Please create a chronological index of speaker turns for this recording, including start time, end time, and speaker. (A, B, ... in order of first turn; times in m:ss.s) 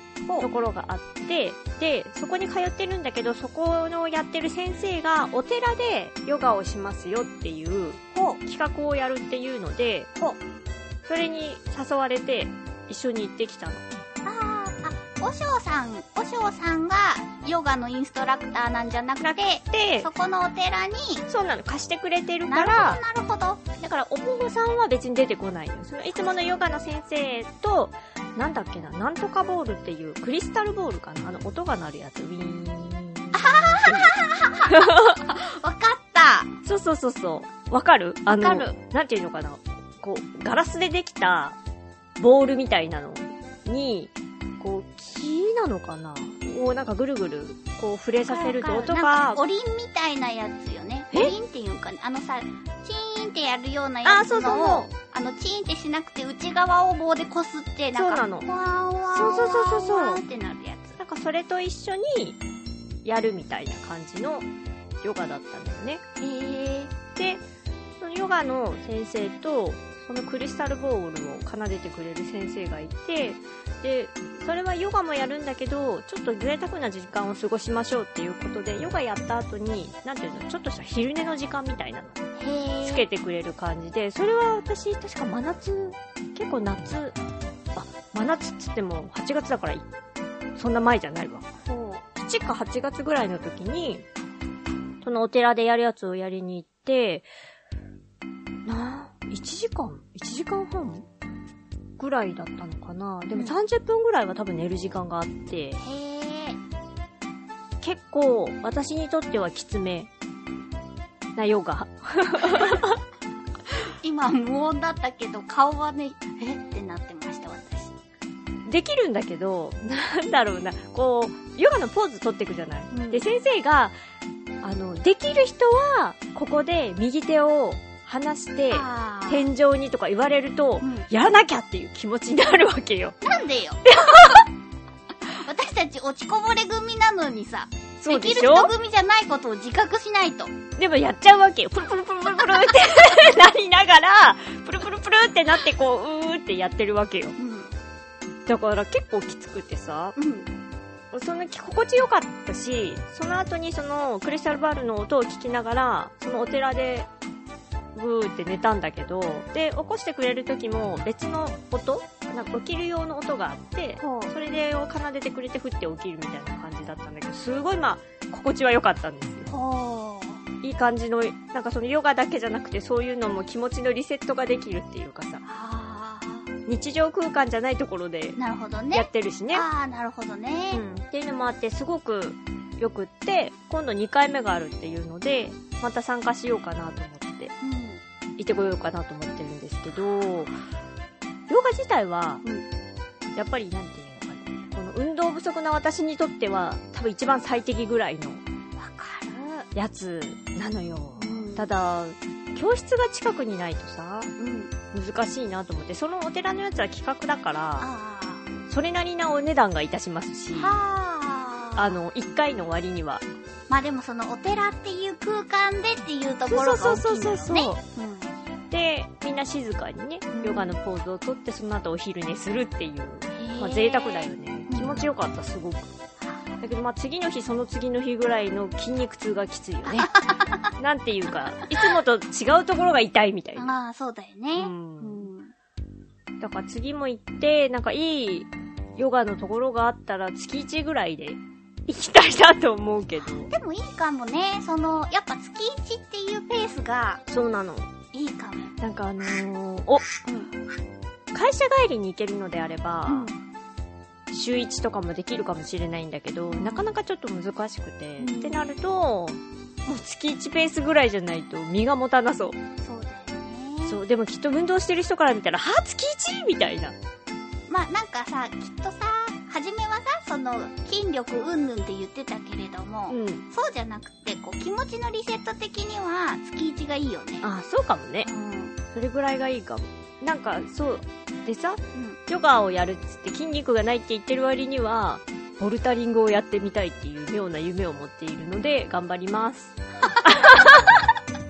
0:00.4-0:10.1 A
0:08.1-0:08.4 B
0:11.0-0:13.8 A
0:14.2-0:21.2 B
0:19.2-0:20.1 A
0:21.3-0:23.0 A
0:22.5-0:23.6 B
0:23.8-0:35.2 A
0:26.1-0:26.5 B
0:33.3-0:36.5 B
0:36.6-0:41.6 A
0:38.3-0:38.8 B
0:42.2-0:49.4 A
0:48.3-1:01.0 B
0:54.0-0:54.9 A
0:57.9-0:58.5 A
0:59.1-1:00.2 A
1:01.0-1:02.4 A
1:03.0-1:04.5 A
1:05.0-1:06.0 A
1:06.2-1:06.9 B
1:07.1-1:07.4 A
1:08.0-1:22.2 A
1:22.4-1:23.1 B
1:22.8-1:27.2 A
1:27.7-1:29.8 A
1:30.6-1:34.0 A
1:35.0-1:37.3 A
1:38.6-1:41.1 A
1:42.0-1:45.8 A
1:45.8-1:46.6 B
1:47.8-1:50.1 A
1:51.4-1:53.0 A
1:52.5-1:52.8 B
1:54.0-1:57.9 B
1:58.6-2:03.9 A
2:02.9-2:03.3 B
2:04.6-2:13.2 A
2:08.7-2:09.5 B
2:10.8-2:11.1 B
2:13.2-2:13.8 B
2:13.9-2:14.4 A
2:15.3-2:20.5 B
2:18.0-2:18.7 A
2:20.8-2:27.4 A
2:27.4-2:27.7 B
2:28.4-2:30.2 A
2:30.2-2:30.5 B
2:31.1-2:37.1 A
2:37.9-2:49.5 A
2:44.0-2:44.3 B
2:49.5-2:50.4 B
2:50.6-2:55.4 A
2:55.4-2:56.5 B
2:56.6-2:58.4 A
2:58.4-3:00.8 B
2:58.9-2:59.6 A
3:00.7-3:07.5 A
3:07.6-3:08.0 B
3:08.4-3:10.5 A
3:11.5-3:12.4 A
3:13.3-3:18.4 A
3:18.8-3:19.7 B
3:19.7-3:24.3 A
3:21.2-3:21.7 B
3:24.4-3:24.7 B
3:24.9-3:27.9 A
3:27.8-3:28.4 B
3:28.7-3:30.8 A
3:30.5-3:32.0 B
3:31.8-3:33.2 A
3:33.7-3:38.4 B
3:36.5-3:37.8 A
3:38.7-3:45.9 A
3:40.3-3:40.7 B
3:43.3-3:45.1 B
3:46.6-3:50.1 A
3:49.9-3:50.7 B
3:50.8-3:53.8 A
3:53.6-3:55.5 B
3:54.6-3:55.2 A
3:56.4-4:03.5 A
4:03.5-4:07.2 B
4:07.3-4:07.9 A
4:08.1-4:08.7 B
4:08.8-4:10.1 A
4:10.2-4:10.5 B
4:11.3-4:13.3 A
4:13.1-4:13.4 B
4:14.3-4:22.6 A
4:16.5-4:16.9 B
4:18.2-4:18.6 B
4:22.8-4:24.0 B
4:23.8-4:27.0 A
4:27.7-4:37.5 B
4:33.1-4:33.4 A
4:37.4-4:38.3 A
4:38.2-4:38.8 B
4:38.9-4:50.8 A
4:41.9-4:42.2 B
4:50.0-4:51.0 B